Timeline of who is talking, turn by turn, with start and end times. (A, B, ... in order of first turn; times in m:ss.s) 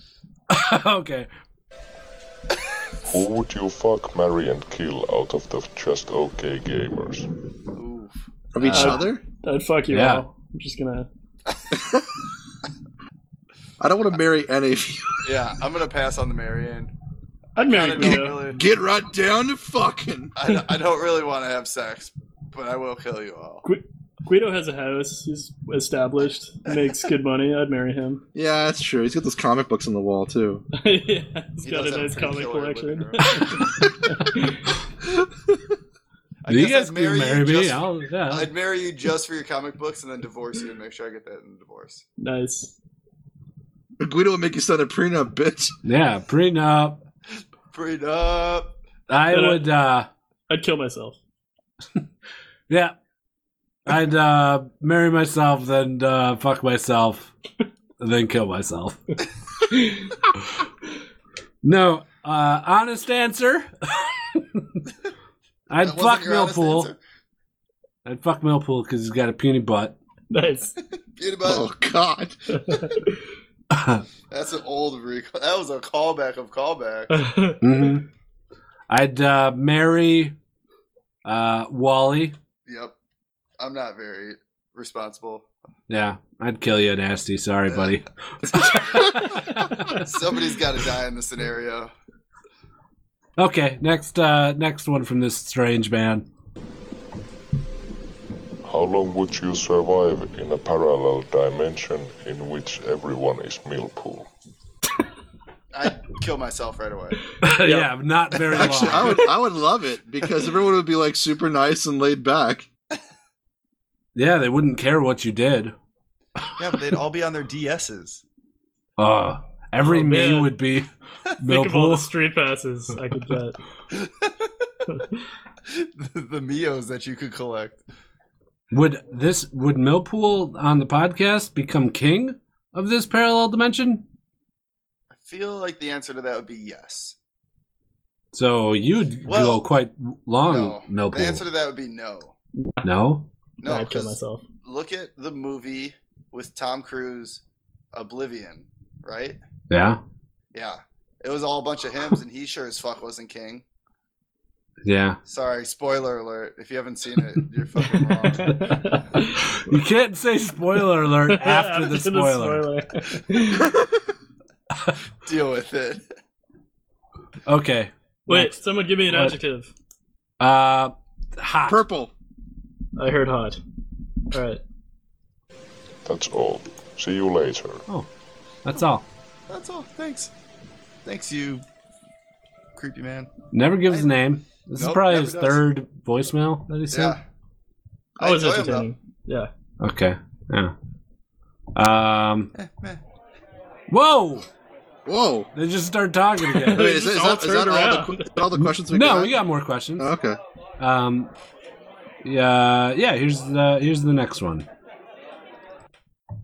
0:00.5-0:01.3 A
0:03.1-0:07.3 B
0:07.7-0:08.2 C
0:08.5-0:09.2 D
0:08.6-0:09.0 A
0:08.7-0:11.1 E
0:09.9-0:10.2 A
0:11.7-0:12.1 D
0:13.8-0:15.3 D
0:15.2-0:16.9 C
0:17.6-0:18.6 C
0:17.6-0:18.4 E
0:18.0-0:20.3 D
0:20.4-0:23.6 C
0:23.6-0:28.2 E
0:28.4-0:30.6 D
0:30.8-0:34.6 E
0:31.6-0:33.4 C
0:36.4-0:42.0 C
0:36.5-0:38.5 A
0:42.2-0:42.7 E
0:44.0-0:45.7 D
0:45.8-0:47.0 A
0:47.7-0:48.7 C
0:49.1-0:50.1 A
0:49.3-0:49.6 E
0:50.5-0:51.2 E
0:52.7-0:52.9 A
0:53.9-0:57.3 A
0:58.0-0:59.0 A
1:01.6-1:04.6 A
1:05.7-1:06.9 A
1:05.8-1:07.0 C
1:08.0-1:10.0 A
1:10.3-1:10.8 E
1:11.2-1:11.7 C
1:11.4-1:12.3 D
1:12.5-1:13.0 E
1:13.7-1:14.0 A
1:14.3-1:17.2 C
1:17.1-1:17.6 E
1:17.6-1:18.1 A
1:18.9-1:20.3 A
1:21.2-1:22.4 A
1:22.6-1:22.9 C
1:23.6-1:25.5 C
1:25.9-1:30.0 A
1:27.7-1:31.9 C
1:33.4-1:36.2 A
1:38.6-1:44.3 B
1:45.7-1:47.3 C
1:47.4-1:49.2 A
1:48.6-1:52.7 D
1:54.2-1:55.7 A
1:56.6-1:58.2 C
1:59.0-2:00.9 A
1:59.8-2:00.5 E
2:01.4-2:02.1 A
2:01.4-2:03.6 E
2:03.9-2:04.6 C
2:05.7-2:07.8 C
2:08.7-2:14.0 A
2:15.1-2:17.2 C
2:18.3-2:21.4 A
2:19.3-2:19.6 C
2:20.5-2:22.3 C
2:22.8-2:23.3 A
2:23.6-2:27.4 C
2:23.6-2:24.4 E
2:27.9-2:29.4 C
2:29.7-2:30.0 A
2:30.5-2:33.6 C
2:34.8-2:35.2 A
2:35.2-2:38.9 C
2:38.4-2:39.4 E
2:38.4-2:42.6 A
2:41.3-2:43.7 E
2:43.5-2:44.0 D
2:45.2-2:46.0 C
2:47.5-2:49.4 A
2:48.3-2:49.7 E
2:50.4-2:51.8 A
2:51.7-2:52.1 D
2:53.0-2:53.6 E
2:54.3-2:54.6 E
2:56.0-2:57.8 B
2:58.6-2:59.0 A
2:59.5-3:00.3 C
3:01.0-3:01.6 C
3:02.8-3:03.3 C
3:03.5-3:07.2 A
3:04.8-3:05.6 C
3:06.9-3:07.2 C
3:08.2-3:08.9 C
3:08.2-3:09.5 E
3:09.8-3:10.7 A
3:11.8-3:12.5 A
3:12.6-3:13.0 C
3:13.9-3:14.5 A
3:15.0-3:15.5 D
3:15.6-3:16.9 A
3:16.6-3:18.4 E
3:16.7-3:19.4 D
3:18.6-3:20.1 A
3:20.0-3:20.4 D
3:20.8-3:21.3 A
3:22.2-3:24.6 A